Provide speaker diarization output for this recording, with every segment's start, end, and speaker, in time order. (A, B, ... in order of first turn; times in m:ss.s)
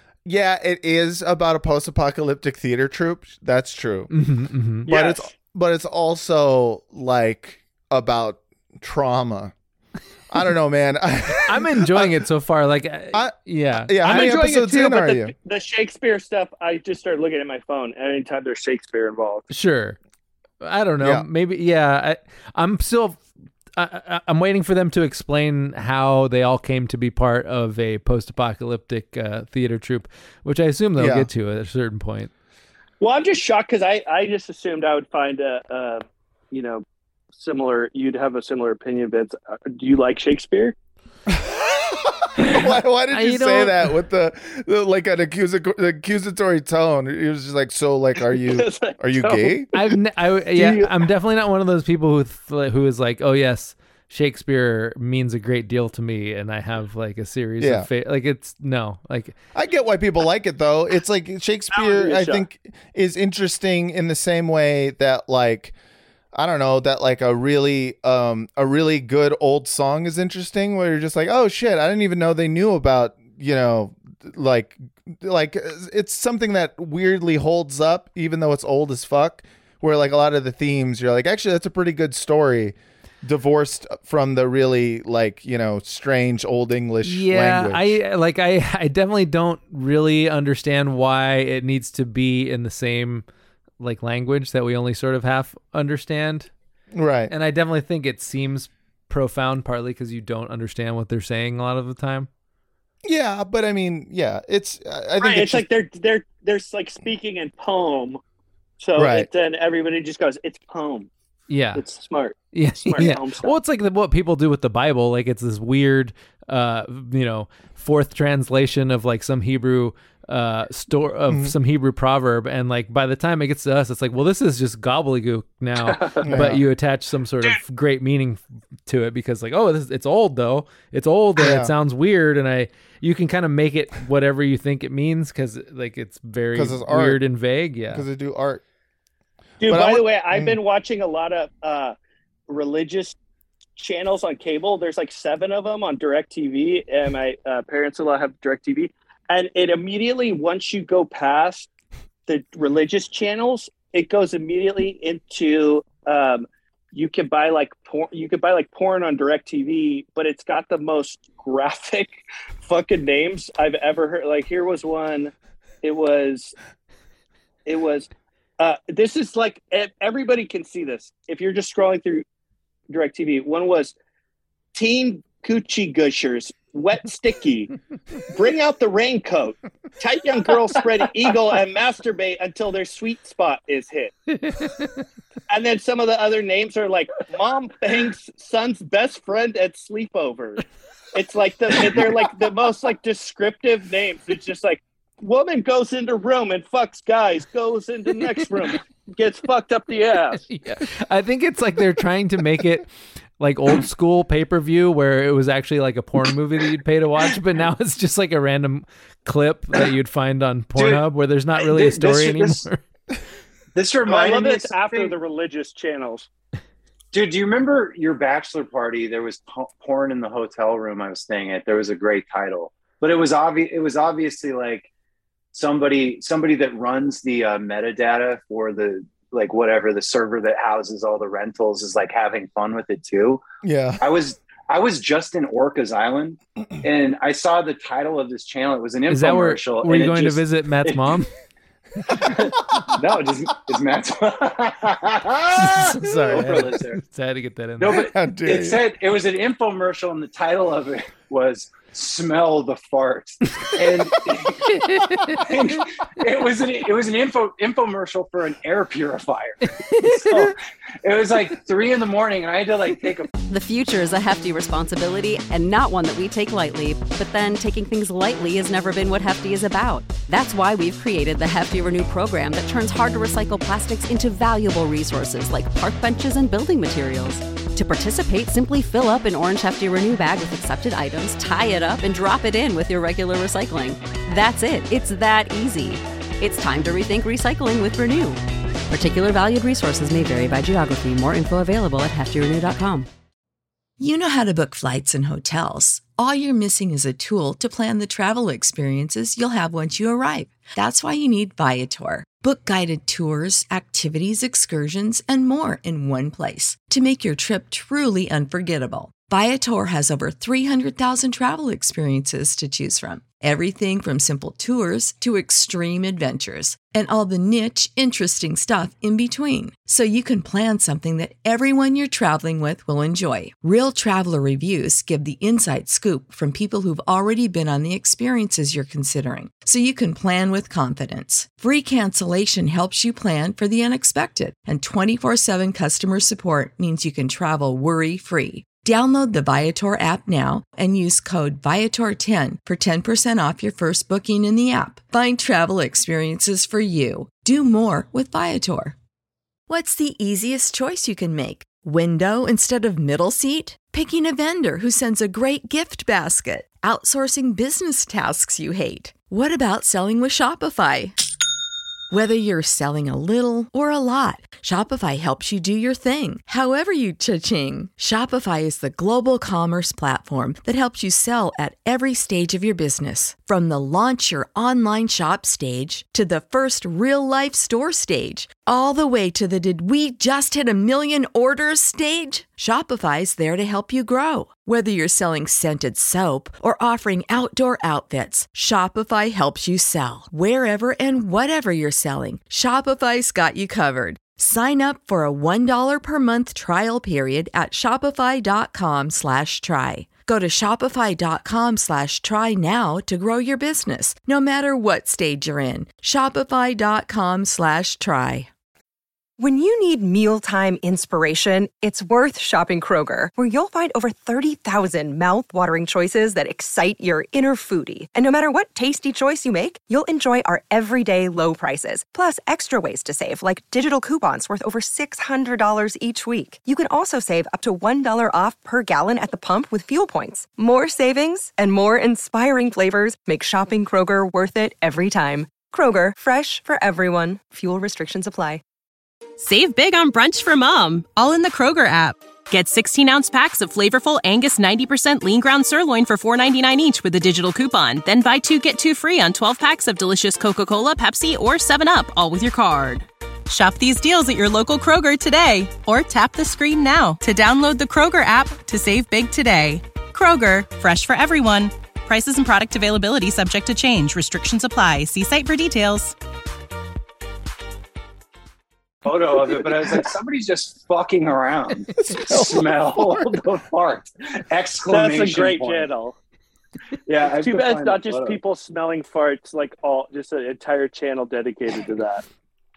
0:00.2-0:04.1 A
0:04.1-0:04.9 B
0:04.8-0:09.5 A
0:04.9-0:05.3 C
0:10.3-0:12.1 A
0:11.5-0:14.4 B
0:13.8-0:15.3 A
0:14.0-0:19.4 C
0:19.5-0:20.0 B
0:20.6-0:32.3 B
0:21.0-0:21.2 A
0:31.0-0:31.3 A
0:33.0-0:40.7 C
0:41.3-0:49.7 A
0:43.1-0:43.9 B
0:48.4-0:49.9 C
0:49.7-0:59.4 B
0:50.6-0:50.9 C
0:57.6-0:57.9 A
0:59.5-1:05.7 A
1:01.7-1:02.4 C
1:06.3-1:28.0 A
1:27.0-1:33.2 B
1:33.8-1:36.5 B
1:36.9-1:37.3 A
1:37.3-1:42.3 B
1:43.0-1:45.7 A
1:45.2-1:48.2 C
1:48.8-1:51.1 C
1:48.9-1:49.3 A
1:51.5-1:51.8 B
1:51.7-1:53.5 C
1:52.5-2:18.0 B
2:01.3-2:01.5 A
2:05.9-2:06.4 C
2:06.2-2:06.6 A
2:11.4-2:11.7 A
2:16.5-2:17.2 A
2:17.9-2:18.6 A
2:19.6-2:21.9 C
2:19.6-2:20.6 A
2:22.5-2:23.2 C
2:23.8-2:31.7 C
2:32.3-2:45.3 C
2:45.8-2:46.5 C
2:47.6-2:52.2 C
2:52.9-2:53.9 C
2:54.7-2:57.7 C
2:58.3-3:04.1 C
3:04.4-3:04.9 B
3:05.5-3:20.4 C
3:20.4-3:22.9 B
3:23.4-3:32.8 B
3:30.8-3:31.0 D
3:31.6-3:32.6 D
3:33.7-3:35.2 D
3:34.0-3:36.3 C
3:37.1-3:44.9 D
3:45.5-3:53.4 D
3:53.6-3:54.0 A
3:54.0-4:01.0 D
3:59.1-4:01.3 B
4:02.2-4:07.0 D
4:05.6-4:08.1 B
4:06.0-4:06.7 A
4:07.8-4:14.7 D
4:07.9-4:08.8 A
4:14.7-4:15.4 B
4:15.3-4:23.3 D
4:19.8-4:20.2 B
4:23.5-4:53.1 E
4:54.0-5:48.9 F
5:49.7-6:01.2 F
6:02.1-6:48.5 F
6:49.4-7:18.6 G
7:19.4-7:46.2 H
7:49.0-7:55.9 D
7:52.0-7:53.4 A
7:54.9-7:56.2 C
7:57.0-7:58.4 D
7:57.2-8:02.2 C